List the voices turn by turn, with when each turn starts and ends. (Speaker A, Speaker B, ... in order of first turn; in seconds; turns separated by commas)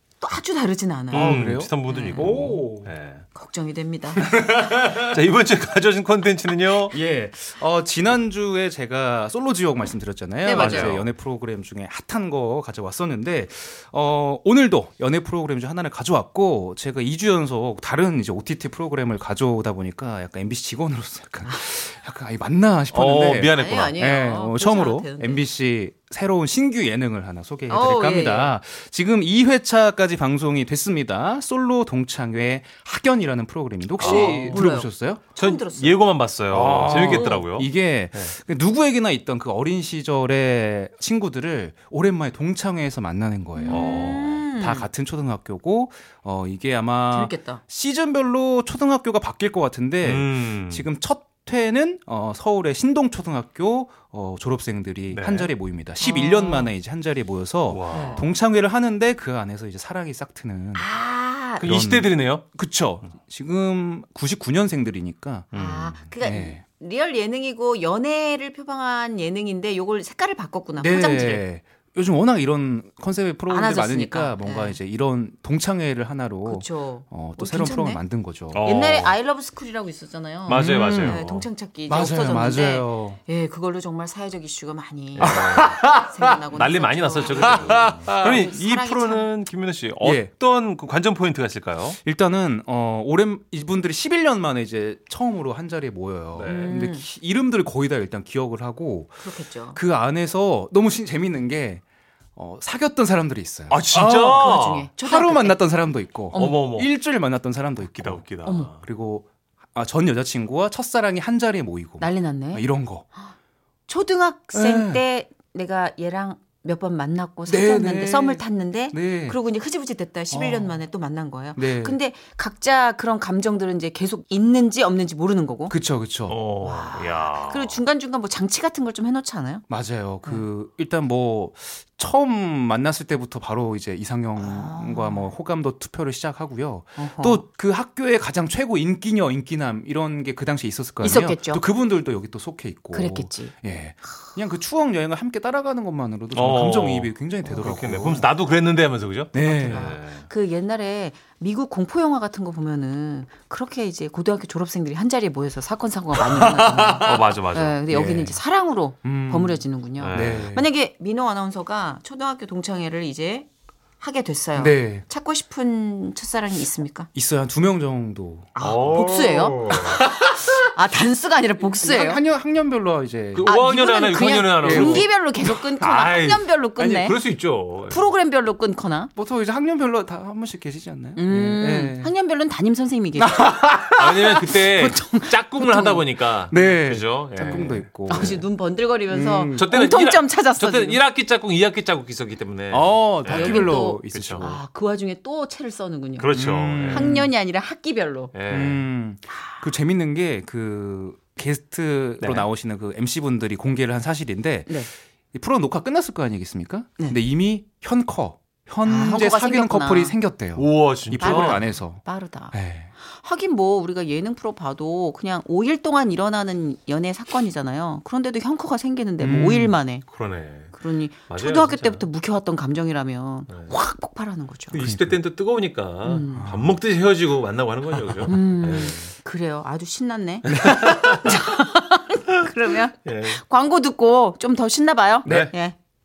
Speaker A: 0.2-2.4, Speaker B: 1.1-2.9, Speaker C: 1.1-3.2, Speaker A: 3.3-4.4, Speaker B: 4.2-5.1, Speaker C: 4.8-7.0, Speaker B: 6.9-35.2, Speaker A: 10.4-11.0, Speaker C: 10.5-11.1, Speaker C: 22.9-24.0, Speaker A: 23.5-25.4, Speaker A: 27.7-28.5, Speaker C: 34.0-34.7, Speaker A: 34.0-36.0, Speaker C: 35.4-38.3, Speaker B: 36.5-60.9, Speaker A: 37.0-37.4, Speaker A: 43.5-44.9, Speaker C: 43.7-44.3, Speaker A: 47.1-47.6, Speaker C: 50.0-50.9, Speaker C: 55.1-55.5, Speaker A: 56.0-56.7, Speaker C: 57.7-58.2, Speaker A: 57.9-58.3, Speaker A: 60.8-61.7, Speaker B: 61.6-66.6, Speaker C: 61.6-62.4, Speaker A: 65.5-71.5, Speaker C: 65.5-65.9, Speaker B: 70.8-78.7, Speaker A: 73.5-74.8, Speaker A: 76.5-78.0, Speaker C: 78.5-79.2, Speaker A: 78.6-89.3, Speaker C: 80.5-81.5, Speaker B: 80.5-81.2, Speaker B: 81.9-83.2, Speaker C: 85.1-85.9, Speaker B: 85.2-86.4, Speaker C: 86.5-92.0, Speaker B: 87.3-88.4, Speaker B: 90.0-90.3, Speaker B: 92.0-101.8, Speaker C: 96.3-96.7, Speaker A: 96.4-97.1, Speaker A: 99.2-99.8, Speaker B: 102.4-113.0, Speaker C: 103.7-104.9, Speaker A: 104.2-105.6, Speaker A: 106.3-106.7, Speaker C: 106.3-106.9, Speaker C: 107.8-108.8, Speaker A: 108.5-108.7, Speaker A: 112.0-112.7, Speaker A: 113.9-125.8, Speaker B: 114.5-115.0, Speaker B: 117.5-119.4, Speaker B: 120.3-120.8, Speaker B: 121.6-122.0, Speaker B: 125.7-126.4, Speaker C: 126.3-127.8, Speaker A: 126.6-129.7, Speaker B: 129.7-148.3, Speaker A: 134.4-135.3, Speaker A: 137.0-137.4, Speaker A: 141.0-141.6, Speaker A: 142.9-143.5, Speaker C: 146.3-150.3, Speaker B: 149.3-150.0, Speaker A: 149.4-163.5, Speaker B: 156.7-157.0, Speaker C: 157.0-157.8, Speaker B: 157.9-158.4, Speaker B: 159.0-160.7, Speaker C: 160.0-160.5, Speaker A: 164.0-167.1, Speaker B: 164.6-165.1, Speaker B: 167.1-168.5, Speaker A: 168.6-172.2, Speaker C: 168.6-170.0, Speaker B: 170.1-170.4, Speaker B: 171.6-173.5, Speaker C: 173.3-175.1, Speaker A: 173.4-177.2, Speaker B: 174.6-175.2, Speaker C: 175.7-178.1, Speaker A: 177.9-179.1, Speaker B: 179.2-182.1, Speaker A: 181.2-183.7, Speaker B: 183.2-184.6, Speaker C: 184.0-188.4, Speaker A: 184.4-186.0, Speaker B: 186.5-188.4, Speaker A: 187.4-191.0, Speaker B: 189.1-189.7, Speaker C: 189.6-194.5, Speaker B: 192.7-194.6, Speaker A: 193.2-198.3, Speaker C: 196.2-197.1, Speaker B: 196.3-197.3, Speaker C: 198.3-198.8, Speaker B: 198.5-212.9, Speaker C: 202.2-202.5, Speaker A: 208.8-210.2, Speaker C: 210.6-211.7, Speaker A: 211.2-220.1, Speaker B: 219.2-219.8, Speaker C: 220.1-222.0, Speaker A: 220.7-224.8, Speaker C: 223.5-223.7, Speaker C: 224.7-229.1, Speaker B: 224.8-225.2, Speaker A: 226.0-226.5, Speaker B: 226.4-226.8, Speaker B: 228.1-228.5, Speaker A: 228.3-235.8, Speaker B: 230.5-231.4, Speaker C: 230.5-231.2, Speaker C: 233.1-233.4, Speaker B: 235.2-235.5, Speaker C: 235.2-235.5